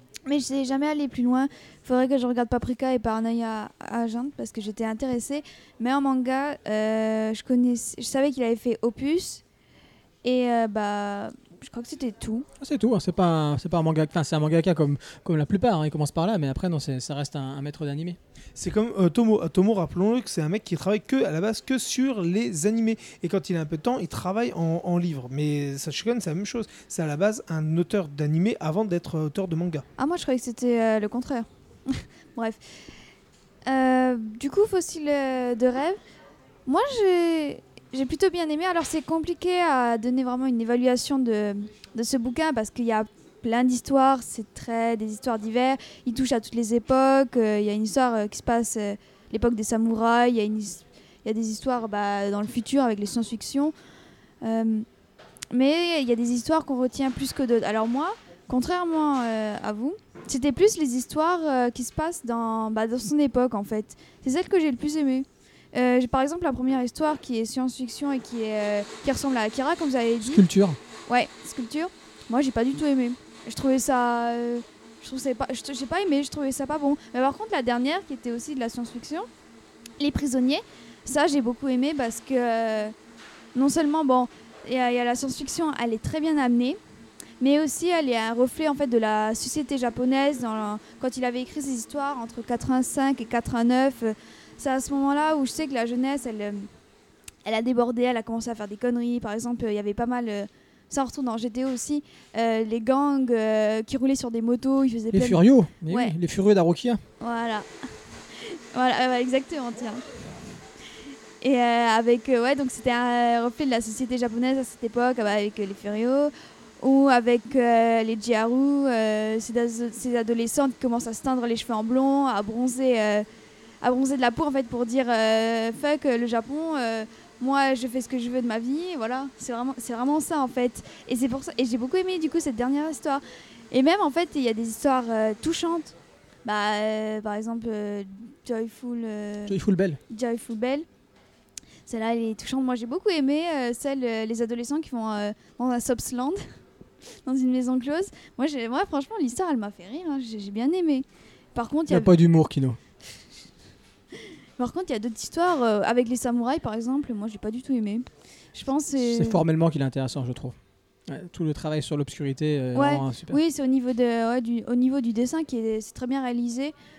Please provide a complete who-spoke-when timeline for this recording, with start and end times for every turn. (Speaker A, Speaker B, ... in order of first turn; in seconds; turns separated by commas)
Speaker A: 0.3-9.4, Speaker A: 10.2-12.5, Speaker B: 12.6-18.2, Speaker C: 18.6-29.9, Speaker A: 30.0-32.6, Speaker A: 33.7-36.0, Speaker A: 36.7-53.7, Speaker A: 54.4-54.9, Speaker A: 55.5-70.5, Speaker B: 70.2-70.8, Speaker A: 71.1-79.3, Speaker A: 80.0-82.9, Speaker A: 83.5-86.8, Speaker A: 87.4-96.7, Speaker A: 97.4-106.2, Speaker B: 105.1-107.0, Speaker A: 107.2-107.7, Speaker A: 108.3-110.1, Speaker A: 111.4-123.3, Speaker A: 123.8-135.9, Speaker A: 136.4-139.6, Speaker B: 139.5-140.0, Speaker A: 140.1-140.9, Speaker A: 141.9-146.4, Speaker A: 147.2-152.2, Speaker B: 151.9-152.8, Speaker A: 154.6-159.4, Speaker B: 159.0-160.6, Speaker B: 161.1-163.4, Speaker A: 162.8-166.7